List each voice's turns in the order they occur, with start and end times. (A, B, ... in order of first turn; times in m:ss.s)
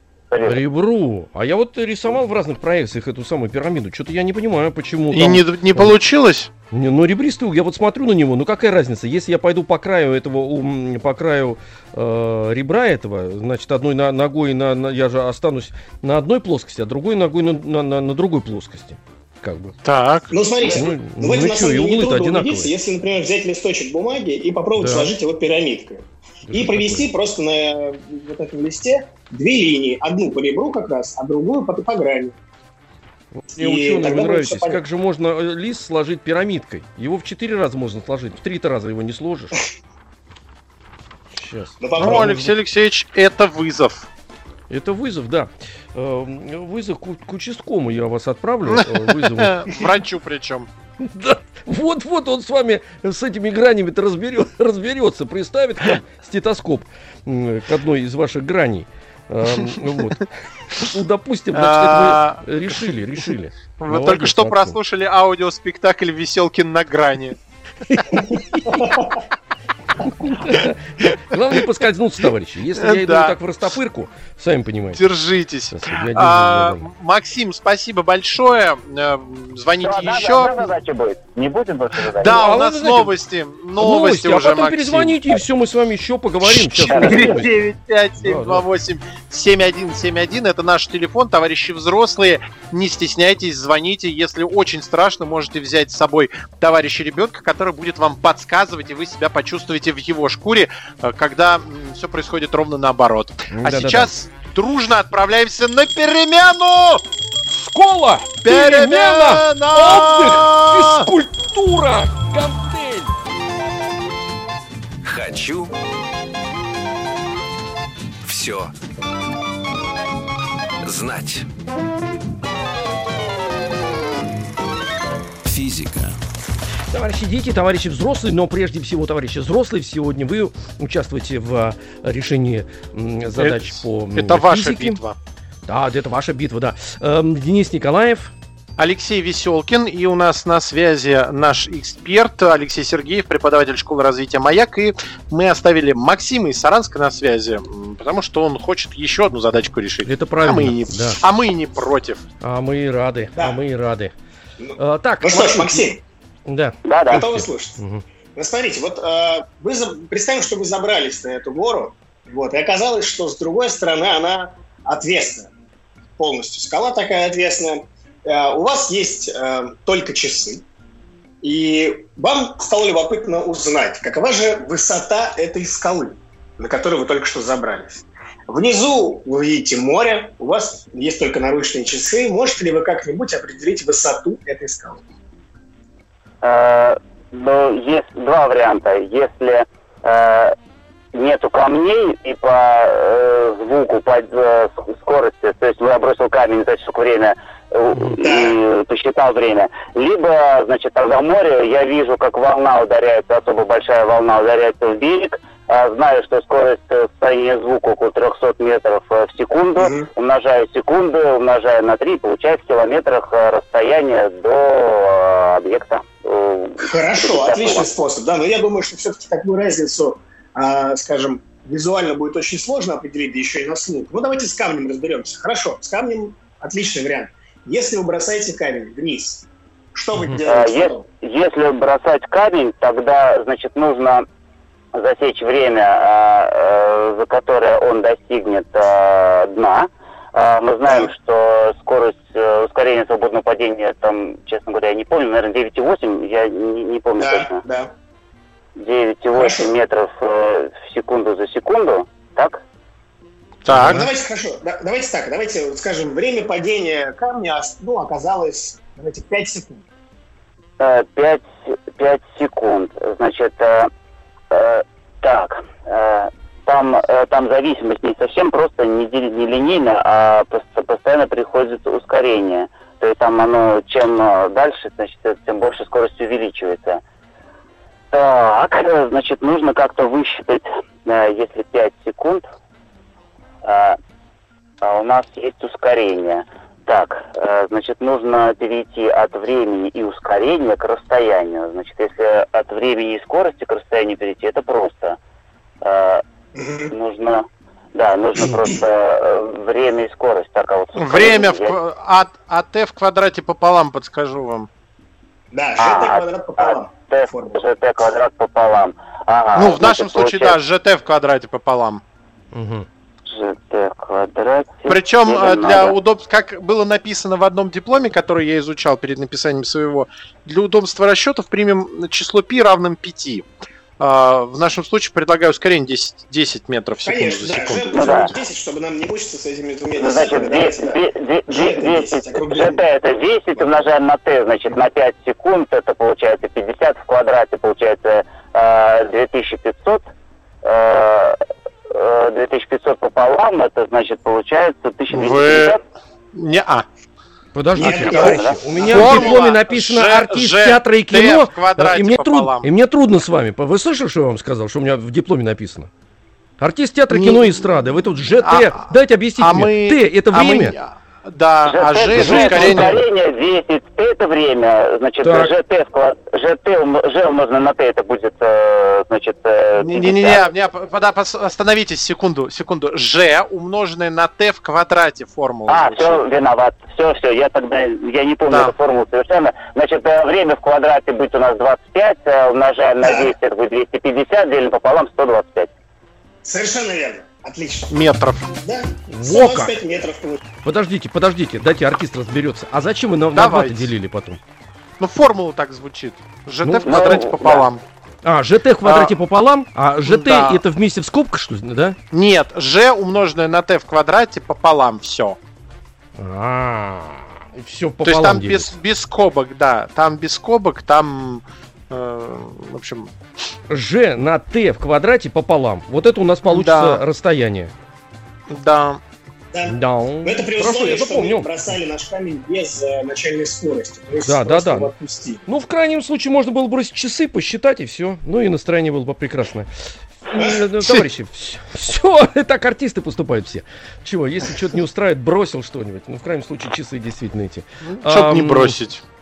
0:00.3-0:00.6 A
0:00.4-0:05.9 B
0:05.1-0:06.5 C
0:06.7-0:19.8 B
0:19.8-0:20.3 C
0:20.3-0:32.4 D
0:20.6-0:22.7 B
0:24.8-0:25.1 B
0:26.4-0:27.1 B
0:33.3-0:39.6 B
0:33.5-0:34.8 D
0:41.4-0:42.5 B
0:41.8-0:42.4 D
0:42.0-0:44.1 C
0:44.7-0:49.9 B
0:48.7-0:50.7 C
0:51.0-1:04.8 B
1:01.5-1:02.9 C
1:03.8-1:07.4 C
1:07.8-1:09.0 B
1:08.7-1:09.2 D
1:10.0-1:15.0 B
1:12.8-1:13.4 C
1:15.0-1:20.7 C
1:15.7-1:16.9 B
1:19.8-1:22.4 A
1:22.2-1:25.4 C
1:22.2-1:23.1 B
1:23.8-1:27.5 B
1:26.4-1:47.0 C
1:26.9-1:27.4 A
1:28.2-1:28.6 B
1:43.5-1:44.1 B
1:47.5-1:53.1 B
1:48.4-1:51.1 C
1:55.0-1:55.7 E
1:58.2-1:58.7 E
2:00.8-2:01.5 E
2:05.4-2:06.2 E
2:06.9-2:15.0 B
2:13.4-2:15.2 C
2:15.7-2:18.3 B
2:18.8-2:32.2 C
2:30.0-2:31.2 B
2:32.4-2:34.1 B
2:33.4-2:33.6 D
2:34.6-2:36.0 D
2:34.8-2:35.9 B
2:36.5-2:38.0 B
2:36.8-2:37.2 A
2:37.1-2:37.8 D
2:38.4-2:45.5 D
2:46.2-2:50.6 D
2:51.4-3:05.0 D
3:06.4-3:10.5 A
3:11.1-3:37.9 A
3:18.2-3:18.6 D
3:29.8-3:30.1 D
3:36.8-3:51.1 D
3:50.1-3:50.4 B
3:50.5-3:54.2 A
3:54.9-4:07.6 A
4:00.9-4:01.1 D
4:07.2-4:07.9 D
4:08.8-4:12.6 A
4:09.3-4:09.7 D
4:13.6-4:14.1 C
4:13.7-4:14.1 B
4:13.7-4:19.8 D
4:20.8-4:23.9 A
4:24.5-4:37.0 A
4:38.1-4:42.5 A
4:43.6-4:44.0 A
4:44.8-4:55.2 A
4:55.8-4:56.2 A
4:56.5-4:56.9 D
4:56.9-5:01.8 A
4:58.4-4:58.8 D
5:01.0-5:04.7 C
5:05.5-5:07.6 D
5:05.8-5:10.6 A
5:09.6-5:12.0 C
5:12.5-5:12.9 B
5:13.2-5:16.0 A
5:14.9-5:23.5 C
5:24.0-5:28.3 C
5:27.0-5:32.8 D
5:27.9-5:28.3 A
5:30.0-5:40.1 A
5:40.6-5:41.4 A
5:41.9-5:45.8 A
5:45.1-5:45.8 C
5:46.3-5:46.8 C
5:47.5-5:55.9 B
5:47.8-5:49.4 D
5:47.8-5:48.5 A
5:48.8-5:52.7 C
5:56.6-6:00.8 B
5:57.1-5:57.6 C
5:58.3-6:03.0 C
6:01.6-6:10.5 A
6:02.1-6:03.0 B
6:05.2-6:05.5 B
6:09.8-6:16.2 C
6:15.7-6:25.7 A
6:23.0-6:23.3 D
6:26.4-6:28.0 D
6:27.9-6:28.5 C
6:28.6-6:30.4 D
6:29.1-6:29.7 B
6:30.6-6:34.4 B
6:33.3-6:33.9 C
6:35.0-6:37.8 C
6:36.6-6:37.0 B
6:36.8-6:37.7 A
6:38.2-6:42.0 B
6:38.8-6:39.1 C
6:40.0-6:40.6 C
6:42.1-6:45.4 C
6:46.2-6:48.7 B
6:48.0-6:53.1 C
6:53.7-6:57.7 B
6:56.4-6:57.0 C
6:58.5-6:59.0 C
6:59.5-7:05.4 D
6:59.7-7:01.5 B
7:04.2-7:04.9 B
7:05.5-7:09.7 B
7:10.2-7:18.8 B
7:10.3-7:10.6 D
7:10.8-7:11.0 C
7:17.9-7:19.0 C